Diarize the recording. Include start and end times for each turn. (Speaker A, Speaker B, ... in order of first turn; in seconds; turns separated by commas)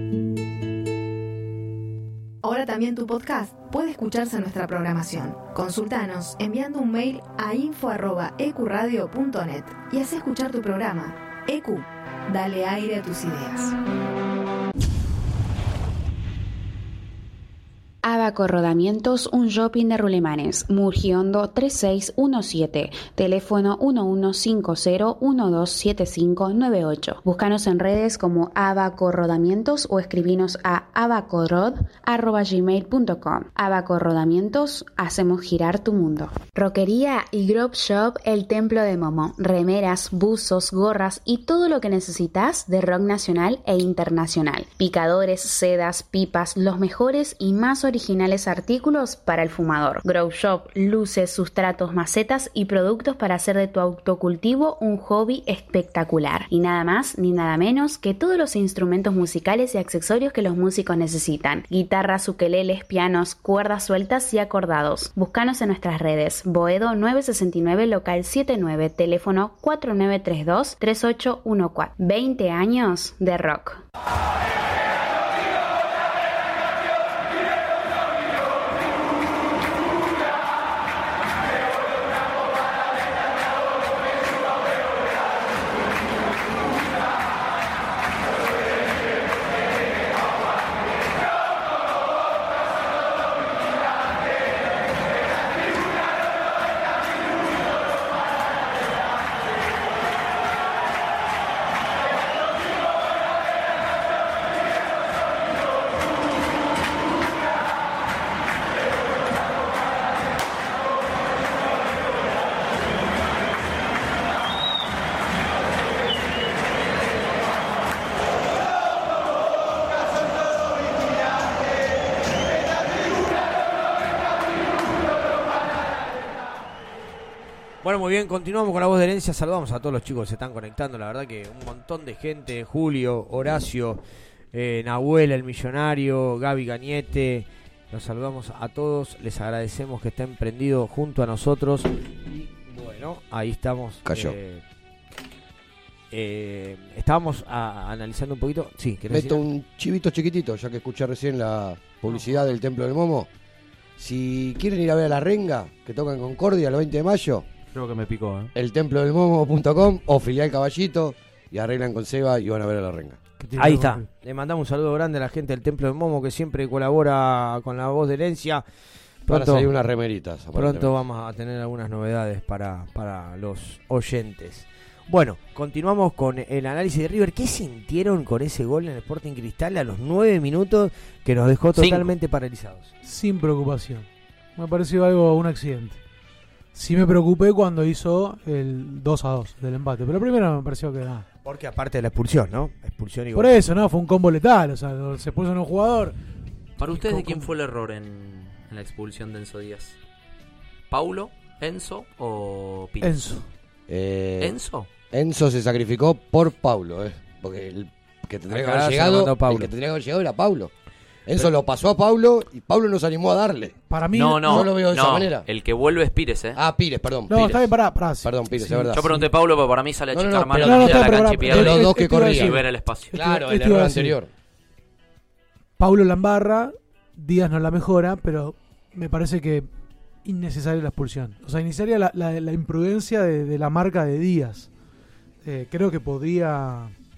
Speaker A: 2.4-13.7, Speaker B: 18.0-73.8, Speaker C: 127.8-134.0, Speaker C: 134.5-144.6, Speaker D: 144.0-144.3, Speaker C: 146.1-149.4, Speaker D: 149.1-153.3, Speaker D: 154.0-157.4, Speaker E: 157.7-158.5, Speaker D: 158.5-163.2, Speaker F: 163.4-164.1, Speaker C: 163.6-168.6, Speaker C: 169.2-169.7, Speaker D: 169.3-170.9, Speaker C: 170.5-182.9, Speaker E: 181.7-182.1, Speaker F: 183.0-186.0, Speaker F: 186.7-191.2, Speaker C: 191.4-193.6, Speaker F: 193.3-196.2, Speaker E: 196.8-199.9, Speaker F: 196.8-197.5, Speaker E: 200.9-203.2, Speaker F: 203.0-203.5, Speaker D: 203.9-204.6, Speaker E: 204.4-204.9, Speaker D: 205.1-210.7, Speaker C: 208.5-209.7, Speaker D: 211.3-213.8, Speaker F: 213.9-214.7, Speaker E: 214.1-216.6, Speaker D: 214.4-215.4, Speaker D: 216.5-217.7, Speaker F: 217.3-219.3, Speaker E: 217.3-217.6, Speaker D: 218.2-219.0, Speaker E: 218.9-223.1, Speaker D: 220.1-224.3, Speaker F: 220.6-224.2, Speaker F: 225.8-229.7, Speaker F: 230.2-234.7, Speaker F: 235.4-236.9